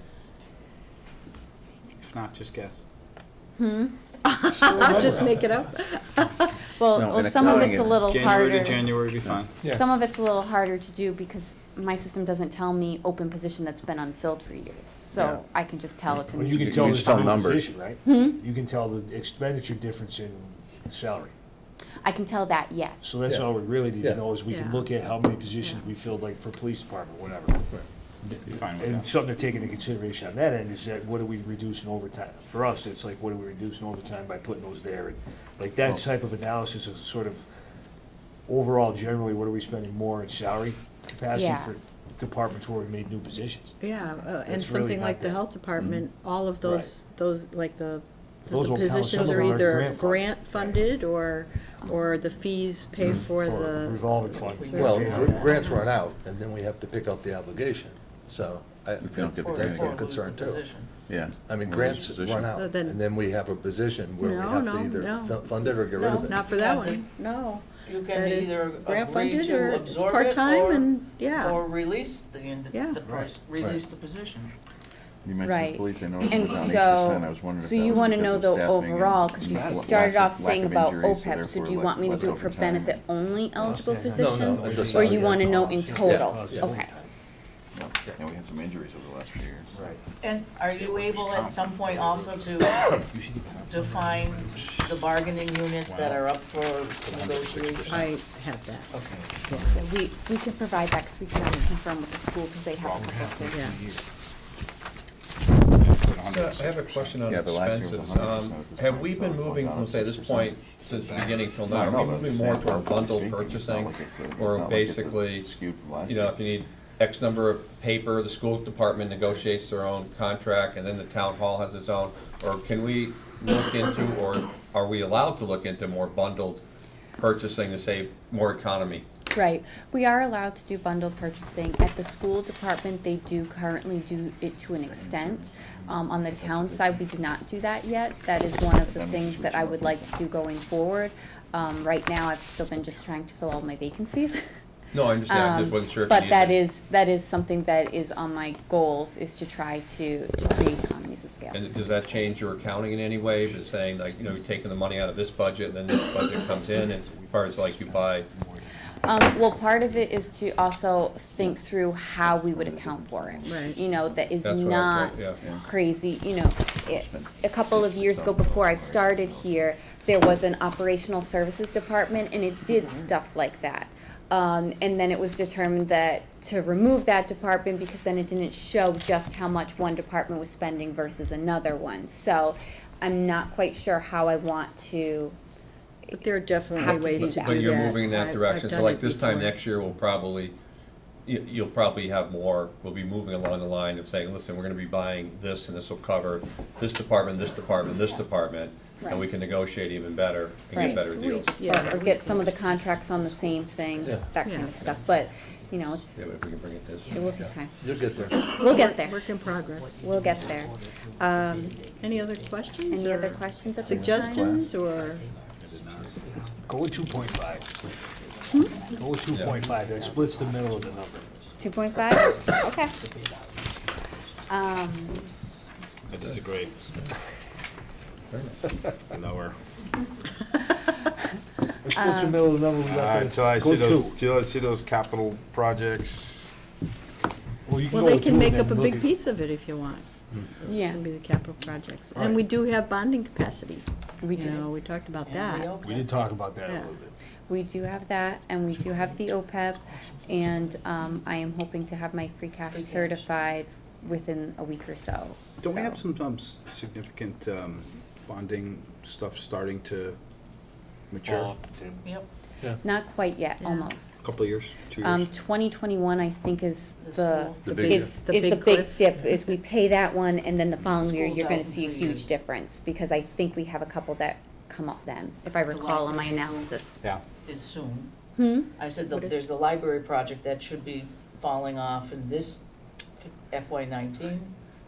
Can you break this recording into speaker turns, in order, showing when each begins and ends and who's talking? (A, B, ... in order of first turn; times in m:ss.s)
0:02.0-0:02.8 A
0:03.6-0:04.0 B
0:04.2-0:06.5 C
0:04.6-0:05.4 B
0:06.7-0:08.9 B
0:06.9-0:08.2 D
0:07.4-0:09.5 A
0:09.6-0:16.9 B
0:15.1-0:15.4 D
0:16.1-0:17.7 D
0:16.3-0:21.3 E
0:18.0-0:18.4 B
0:22.0-0:23.3 B
0:23.0-0:27.7 E
0:24.5-0:24.9 C
0:25.6-0:25.9 C
0:28.2-0:29.1 A
0:28.8-0:37.4 E
0:38.5-0:43.8 E
0:41.3-0:41.8 B
0:43.8-0:55.1 C
0:44.4-0:45.4 E
0:46.6-0:46.9 E
0:48.5-0:50.3 E
0:53.3-0:55.6 E
0:54.5-0:55.7 F
0:54.7-1:00.7 G
0:59.0-1:00.0 D
0:59.2-1:00.9 F
1:01.1-1:02.5 D
1:01.4-1:06.4 G
1:02.5-1:03.0 C
1:04.2-1:11.6 C
1:05.9-1:07.0 F
1:07.8-1:14.5 F
1:12.7-1:13.0 C
1:15.2-1:23.0 D
1:15.4-1:26.9 B
1:23.6-1:26.9 E
1:24.1-1:25.7 G
1:26.0-1:26.3 D
1:27.7-1:29.8 D
1:30.2-1:32.9 F
1:30.8-1:32.5 A
1:33.1-1:33.8 E
1:33.6-1:38.1 F
1:34.5-1:34.9 A
1:35.8-1:38.1 A
1:37.9-1:39.7 C
1:39.7-1:43.7 B
1:42.8-1:43.8 A
1:43.0-1:43.4 H
1:43.5-1:43.8 C
1:45.7-1:47.2 A
1:46.3-1:55.5 H
1:47.3-1:56.4 D
1:50.7-1:51.5 A
1:56.0-2:06.6 H
2:07.2-2:09.0 H
2:09.3-2:24.4 B
2:14.8-2:17.2 D
2:18.6-2:20.2 D
2:24.9-2:26.6 H
2:25.3-2:31.6 B
2:31.5-2:38.3 H
2:36.3-2:39.4 A
2:39.0-3:05.4 B
2:42.2-2:44.4 D
2:43.4-2:43.8 C
2:44.4-2:45.4 H
2:45.4-2:45.7 D
2:46.8-2:49.8 D
3:06.1-3:09.6 C
3:06.7-3:07.9 B
3:07.1-3:10.5 H
3:11.2-3:27.4 H
3:19.0-3:19.3 B
3:20.7-3:21.0 B
3:20.7-3:22.5 C
3:21.6-3:26.3 B
3:24.4-3:24.8 C
3:27.1-3:29.2 B
3:27.4-3:28.4 G
3:28.2-3:28.5 H
3:28.6-3:30.0 C
3:29.4-3:33.9 H
3:30.0-3:31.8 B
3:31.9-3:35.2 C
3:32.9-3:34.6 B
3:33.8-3:34.7 G
3:34.6-3:45.5 H
3:35.6-3:36.2 A
3:36.6-3:37.7 E
3:38.5-3:38.8 C
3:38.9-3:41.3 E
3:41.6-3:42.9 B
3:44.5-3:45.3 B
3:46.1-3:46.9 A
3:46.4-3:46.9 H
3:49.1-3:49.6 A
3:51.8-3:54.2 E
3:51.9-3:52.4 B
3:52.8-3:56.5 A
3:57.6-3:59.1 E
3:57.9-4:05.8 C
4:00.7-4:01.0 B
4:04.2-4:04.7 B
4:05.2-4:06.2 F
4:05.8-4:07.1 E
4:07.5-4:16.0 B
4:12.7-4:13.4 F
4:15.6-4:20.2 A
4:21.1-4:21.5 A
4:21.2-4:22.0 E
4:22.8-4:24.3 B
4:23.6-4:23.9 C
4:24.2-4:25.3 A
4:25.0-4:37.0 B
4:27.0-4:27.7 F
4:27.6-4:28.2 G
4:27.7-4:29.0 C
4:31.0-4:32.3 F
4:35.7-4:36.7 F
4:37.4-4:38.1 F
4:38.4-4:38.7 B
4:38.8-4:42.6 F
4:43.2-4:44.5 F